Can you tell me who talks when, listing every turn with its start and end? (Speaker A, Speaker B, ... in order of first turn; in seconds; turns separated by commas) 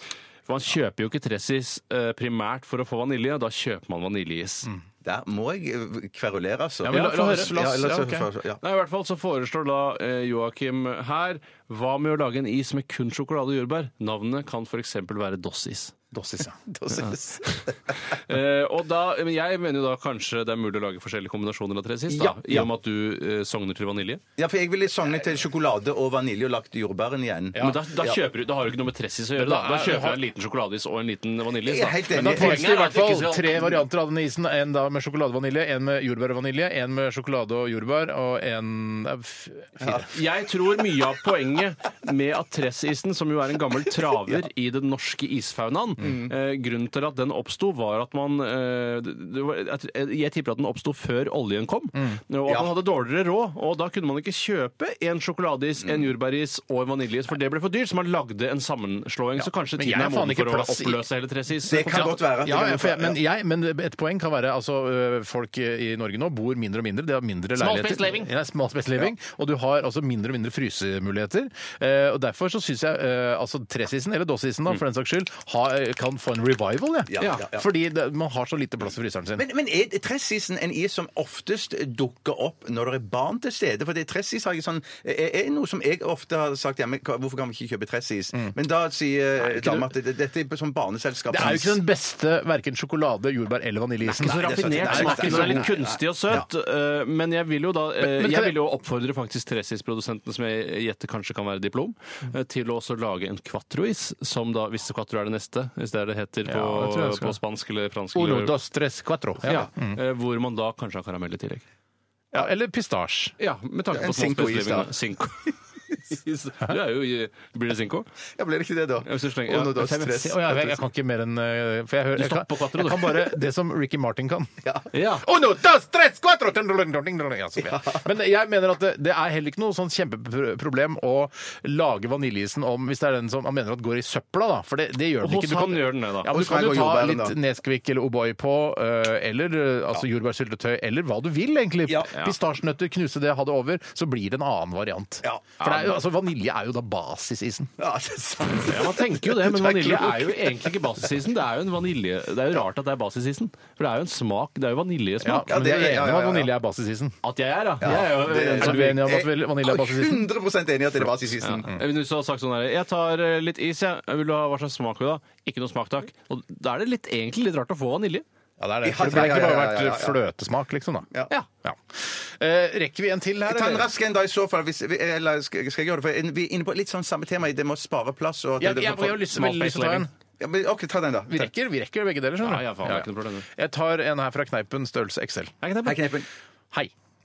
Speaker A: 0.5-4.7, Speaker B: 5.0-8.6, Speaker C: 6.8-8.3, Speaker A: 8.6-15.9, Speaker C: 16.1-16.6, Speaker B: 16.7-17.7, Speaker A: 17.9-24.2, Speaker B: 22.1-22.7, Speaker B: 24.4-28.2, Speaker A: 27.6-33.8, Speaker C: 29.4-30.2, Speaker B: 31.6-32.7, Speaker C: 32.1-40.1, Speaker B: 39.8-40.1, Speaker A: 40.1-62.2, Speaker B: 46.0-46.3, Speaker C: 52.0-52.2, Speaker B: 55.8-56.1, Speaker C: 59.4-61.0, Speaker B: 61.6-63.2, Speaker C: 61.9-79.5, Speaker A: 67.6-68.3, Speaker B: 77.1-77.6, Speaker A: 77.2-77.5, Speaker B: 79.4-91.8, Speaker C: 89.4-89.9, Speaker C: 91.3-95.7, Speaker A: 94.1-108.5, Speaker B: 94.1-96.5, Speaker C: 98.0-98.6, Speaker C: 106.5-107.4, Speaker C: 108.1-110.0, Speaker A: 109.5-111.7, Speaker C: 112.3-113.3, Speaker A: 113.4-115.5, Speaker B: 113.9-114.9, Speaker A: 116.1-118.1, Speaker B: 118.4-120.8, Speaker A: 119.0-120.3, Speaker C: 120.0-124.5, Speaker A: 122.2-123.3, Speaker A: 124.9-125.2, Speaker C: 125.2-147.7, Speaker B: 127.6-128.0, Speaker A: 135.2-136.4, Speaker B: 136.3-137.3, Speaker B: 145.2-145.5, Speaker A: 145.6-145.9, Speaker B: 147.8-150.8, Speaker A: 148.7-155.5, Speaker C: 155.2-157.2, Speaker B: 155.4-156.5, Speaker A: 157.2-159.1, Speaker B: 157.8-161.7, Speaker C: 157.9-160.3, Speaker A: 161.4-168.2, Speaker C: 168.6-171.1, Speaker B: 168.8-170.2, Speaker C: 171.6-173.9, Speaker B: 173.5-179.2, Speaker C: 178.6-180.1, Speaker A: 179.2-180.1, Speaker B: 180.4-181.5, Speaker C: 181.3-185.6, Speaker A: 182.4-183.5, Speaker A: 185.6-186.0, Speaker B: 185.8-186.3